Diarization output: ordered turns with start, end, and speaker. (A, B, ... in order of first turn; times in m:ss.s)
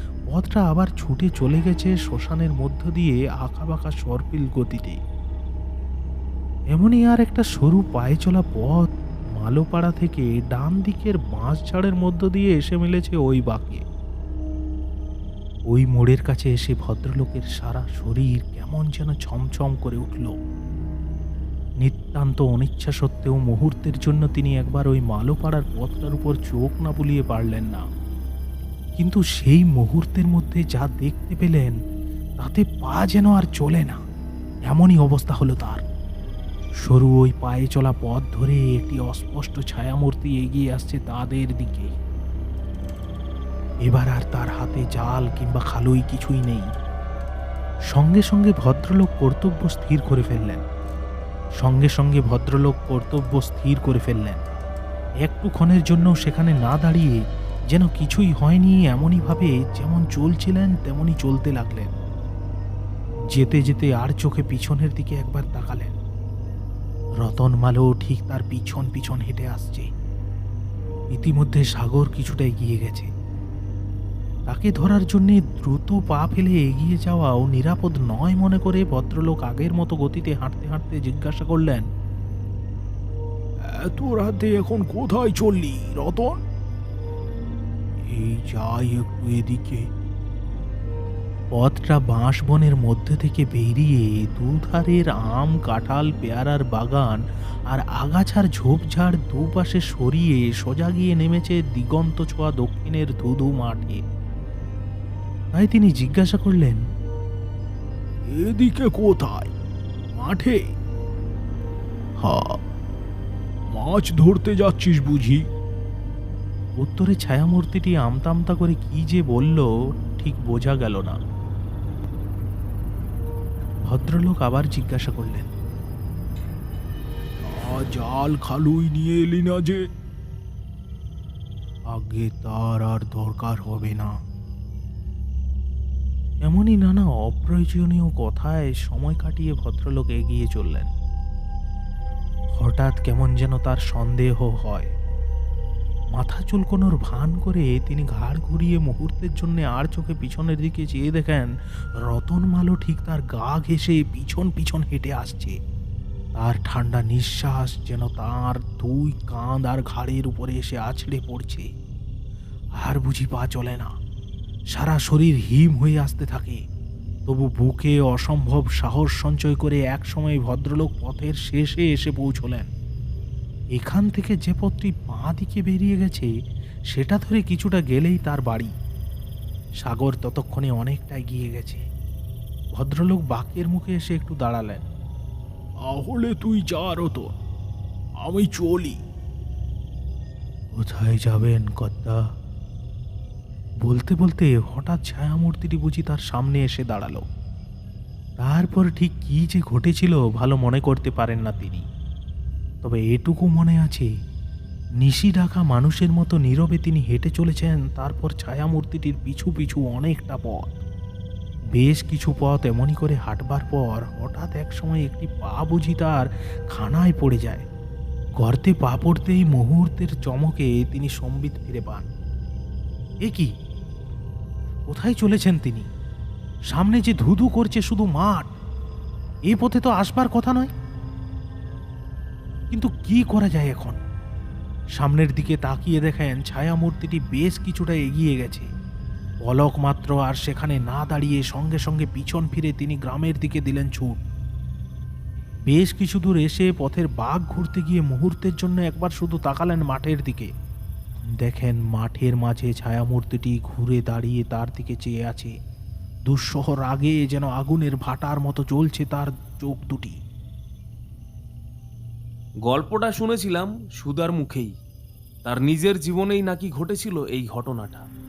0:00.3-0:05.0 A
0:06.7-0:13.8 A
0:15.7-0:20.4 A
0:21.8-0:27.9 A
0:29.0-0:31.8 A
0:32.4-0:34.0 A
0:34.7-0:35.8 A
0:36.9-0:42.0 A
0:43.9-0:46.7 A
0:47.9-0:50.6 A
0:51.6-0:54.4 A
0:55.2-0:57.2 A
0:57.7-1:01.9 A
1:03.3-1:06.0 A
1:07.2-1:09.9 A
1:11.1-1:13.1 A
1:14.5-1:21.8 A
1:23.8-1:26.4 B
1:28.0-1:29.8 B
1:31.5-1:44.0 A
1:45.6-1:46.8 A
1:48.3-1:49.5 B
1:50.2-1:50.6 B
1:52.2-1:52.6 B
1:53.7-1:55.4 B
1:56.8-2:01.2 A
2:03.9-2:05.5 A
2:07.4-2:09.8 B
2:11.9-2:14.1 A
2:16.4-2:20.9 A
2:22.6-2:24.9 A
2:26.2-2:35.6 A
2:36.4-2:41.7 A
2:42.8-2:43.9 A
2:44.7-2:46.6 A
2:47.3-2:52.7 A
2:53.8-2:56.3 A
2:56.9-2:58.7 A
2:59.8-3:01.8 A
3:02.8-3:04.8 A
3:05.9-3:07.3 B
3:08.2-3:09.0 B
3:10.8-3:12.2 A
3:13.8-3:17.2 A
3:18.4-3:21.8 A
3:22.8-3:24.1 A
3:25.0-3:30.9 A
3:31.8-3:37.6 A
3:38.4-3:42.1 A
3:43.2-3:43.5 A
3:44.9-3:45.9 A
3:46.7-3:48.5 A
3:49.5-3:50.7 A
3:52.7-3:54.0 A
3:55.0-3:58.7 A
3:59.4-4:04.2 A
4:05.7-4:10.5 A
4:11.4-4:15.5 A
4:16.3-4:20.2 A
4:22.6-4:24.7 C
4:25.4-4:28.1 C